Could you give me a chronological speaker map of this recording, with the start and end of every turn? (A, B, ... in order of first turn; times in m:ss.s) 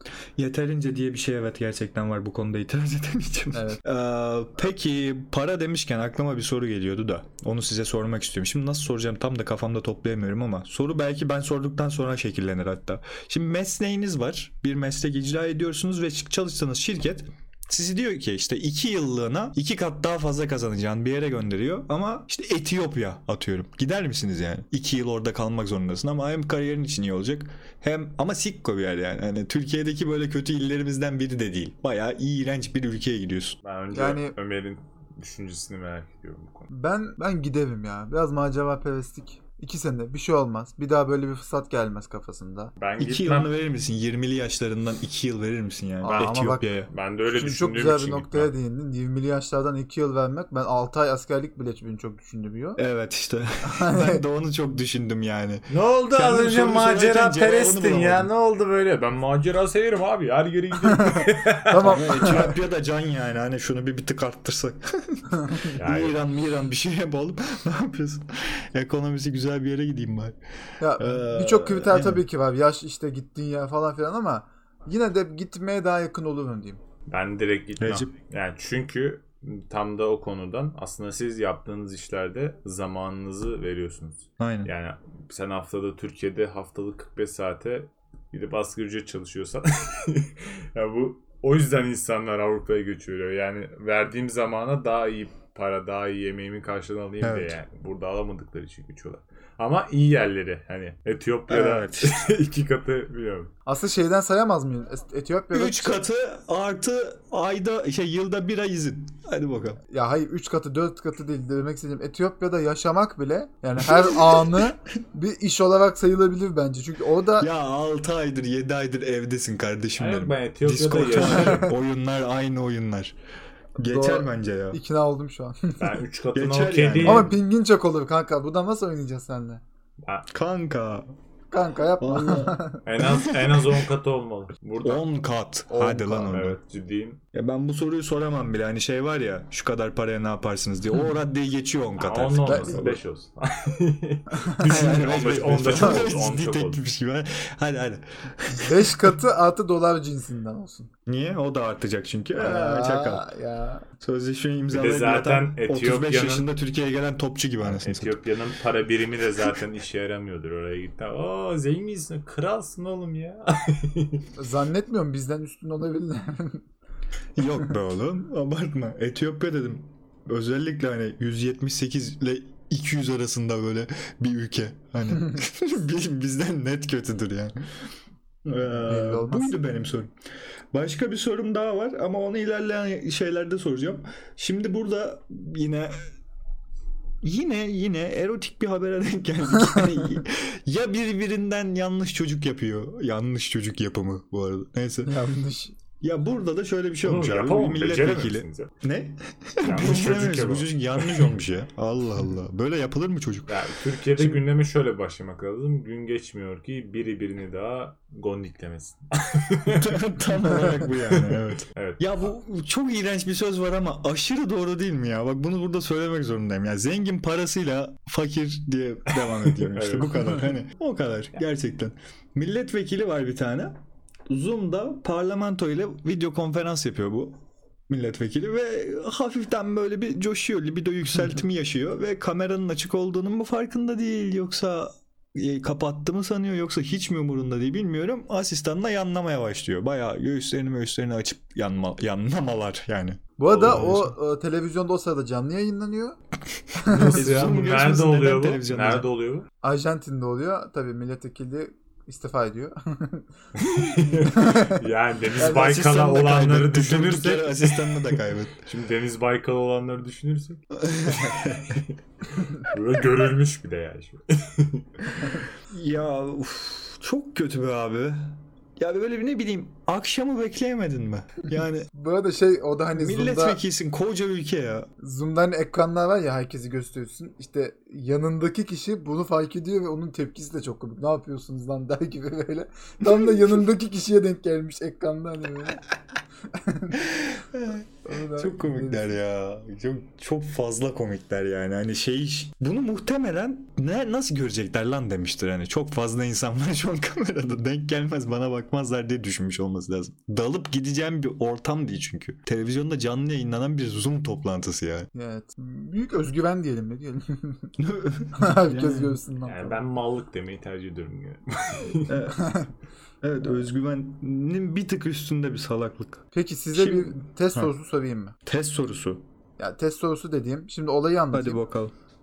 0:00.4-0:33.6 A
0:03.5-0:03.8 B
0:33.6-0:36.7 C
0:33.9-0:34.3 B
0:36.7-0:42.7 B
0:42.8-0:43.5 C
0:43.0-0:46.9 A
0:46.0-0:46.7 B
0:46.0-0:48.5 C
0:47.3-0:52.8 B
0:52.8-0:58.3 A
0:53.6-0:54.2 B
0:55.7-1:02.5 C
1:00.9-1:02.5 B
1:01.8-1:10.4 A
1:05.7-1:06.2 C
1:10.8-1:16.8 B
1:11.0-1:12.2 A
1:17.1-1:43.5 C
1:17.8-1:18.1 A
1:24.4-1:24.7 A
1:37.2-1:37.6 A
1:41.5-1:42.1 A
1:43.6-1:46.0 B
1:45.5-1:49.8 A
1:49.9-1:57.5 B
1:53.8-1:54.7 A
1:57.4-2:03.1 A
2:00.0-2:01.7 C
2:01.2-2:01.7 B
2:03.8-2:04.8 A
2:03.8-2:05.9 B
2:05.8-2:07.3 C
2:06.3-2:07.3 A
2:07.0-2:09.6 B
2:10.0-2:10.3 C
2:10.3-2:11.1 A
2:11.5-2:12.8 B
2:12.0-2:13.8 A
2:12.8-2:15.0 C
2:14.8-2:16.6 A
2:15.7-2:17.2 C
2:17.3-2:23.0 A
2:22.0-2:26.8 C
2:22.4-2:23.0 B
2:24.3-2:26.1 B
2:24.6-2:29.1 A
2:28.6-2:30.9 B
2:31.0-2:33.2 A
2:32.4-2:33.8 B
2:34.0-2:38.2 A
2:34.7-2:36.5 C
2:37.6-2:44.2 C
2:44.4-2:46.6 B
2:47.4-2:57.6 A
2:58.4-3:00.1 A
2:58.8-2:59.6 B
3:00.7-3:06.0 A
3:07.2-3:15.2 A
3:15.0-3:15.8 B
3:16.0-3:23.6 A
3:17.0-3:18.7 C
3:19.6-3:21.3 C
3:23.5-3:30.0 C
3:24.2-3:24.4 A
3:29.7-4:04.1 A
3:31.0-3:32.0 C
3:39.1-3:40.4 C
4:03.4-4:06.2 B
4:03.5-4:04.0 C
4:06.8-4:07.2 B
4:06.9-4:09.5 C
4:07.1-4:09.1 A
4:09.6-4:13.2 B
4:13.6-4:21.9 C
4:14.0-4:14.8 B
4:15.4-4:15.9 B
4:15.4-4:18.6 A
4:20.8-4:21.8 A
4:22.5-4:24.8 C
4:25.7-4:31.9 A
4:31.9-4:33.6 B
4:32.9-4:34.9 A
4:35.0-4:45.8 B
4:46.5-4:47.0 B
4:47.0-5:05.1 A
4:48.0-4:49.2 B
5:05.1-5:07.7 B
5:07.8-5:09.2 A
5:08.3-5:09.8 B
5:09.4-5:12.2 C
5:12.1-5:12.6 A
5:12.3-5:12.7 B
5:13.2-5:16.2 A
5:16.3-5:18.3 B
5:16.7-5:17.7 A
5:18.4-5:19.2 A
5:19.6-5:21.6 B
5:21.3-5:21.9 A